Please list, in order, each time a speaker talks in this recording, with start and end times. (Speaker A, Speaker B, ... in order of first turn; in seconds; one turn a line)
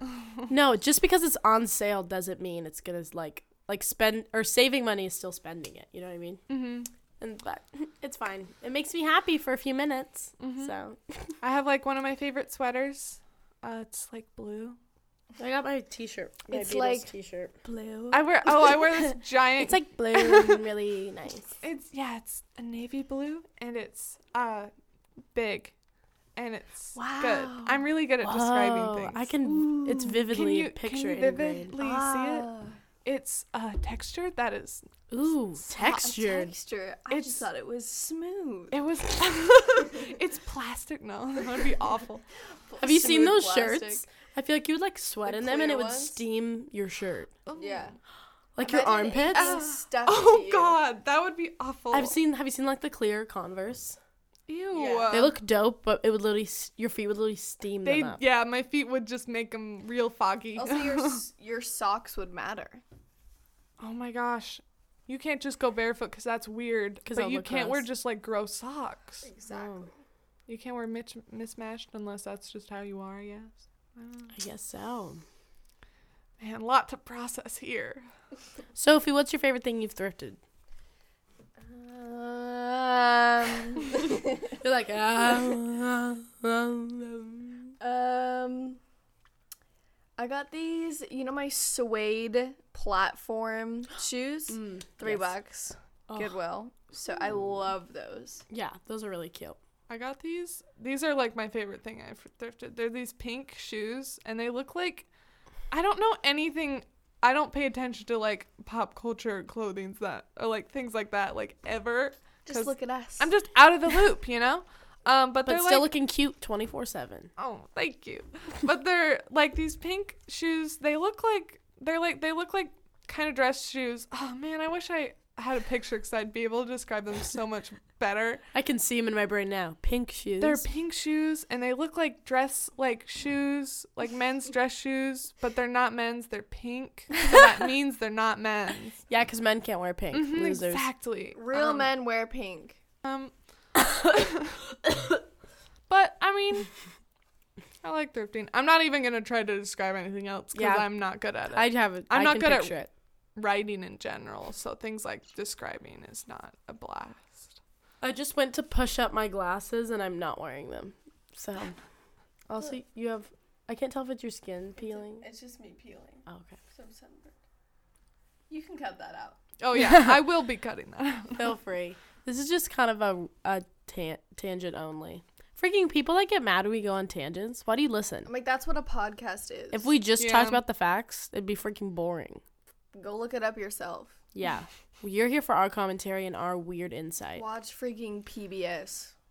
Speaker A: 0.5-6.4
Speaker B: 6.5-6.9
Speaker A: 7.2-11.3
Speaker B: 10.4-10.7
Speaker B: 11.4-14.8
Speaker A: 15.4-17.5
Speaker C: 16.5-17.1
Speaker C: 17.6-18.9
Speaker B: 18.1-20.7
Speaker A: 19.6-21.5
Speaker B: 21.6-24.7
Speaker B: 25.3-25.7
Speaker B: 26.4-29.3
Speaker C: 26.9-27.9
Speaker A: 28.2-31.7
Speaker B: 29.9-32.5
Speaker C: 31.8-32.8
Speaker B: 33.0-35.0
Speaker A: 35.1-36.5
Speaker B: 35.6-36.1
Speaker C: 35.8-38.8
Speaker B: 37.1-37.5
Speaker B: 38.7-42.2
Speaker C: 42.7-44.1
Speaker A: 42.8-47.3
Speaker C: 45.2-46.2
Speaker B: 47.5-48.0
Speaker C: 47.6-48.0
Speaker A: 48.6-49.6
Speaker C: 48.6-50.8
Speaker B: 49.3-52.2
Speaker A: 51.9-54.0
Speaker B: 54.5-55.4
Speaker C: 54.7-55.2
Speaker A: 55.1-58.2
Speaker B: 57.9-61.2
Speaker C: 60.6-62.8
Speaker B: 63.8-69.2
Speaker A: 67.1-67.8
Speaker C: 69.2-69.9
Speaker A: 69.5-69.9
Speaker B: 70.5-74.3
Speaker A: 74.3-75.2
Speaker B: 76.4-78.0
Speaker A: 78.8-80.4
Speaker C: 81.6-84.5
Speaker A: 84.5-87.7
Speaker C: 87.8-88.8
Speaker C: 90.2-98.5
Speaker A: 94.5-95.3
Speaker A: 96.1-96.3
Speaker A: 98.5-99.6
Speaker B: 99.9-105.1
Speaker B: 105.7-115.9
Speaker C: 112.5-113.3
Speaker A: 115.5-117.3
Speaker B: 117.4-128.4
Speaker A: 128.5-130.7
Speaker B: 130.4-139.0
Speaker A: 139.1-140.9
Speaker B: 140.1-141.9
Speaker C: 141.4-142.8
Speaker B: 143.0-143.3
Speaker B: 144.1-144.6
Speaker B: 145.9-146.7
Speaker B: 147.8-152.8
Speaker A: 150.6-150.9
Speaker A: 151.5-152.9
Speaker B: 153.4-157.6
Speaker A: 158.0-161.8
Speaker A: 162.5-165.2
Speaker C: 164.8-167.3
Speaker A: 166.3-166.6
Speaker C: 168.5-169.4
Speaker B: 169.6-171.5
Speaker A: 169.8-170.2
Speaker A: 171.4-178.3
Speaker C: 178.3-179.9
Speaker A: 179.7-182.4
Speaker B: 180.2-180.6
Speaker C: 182.9-184.2
Speaker A: 184.3-187.4
Speaker C: 187.4-189.1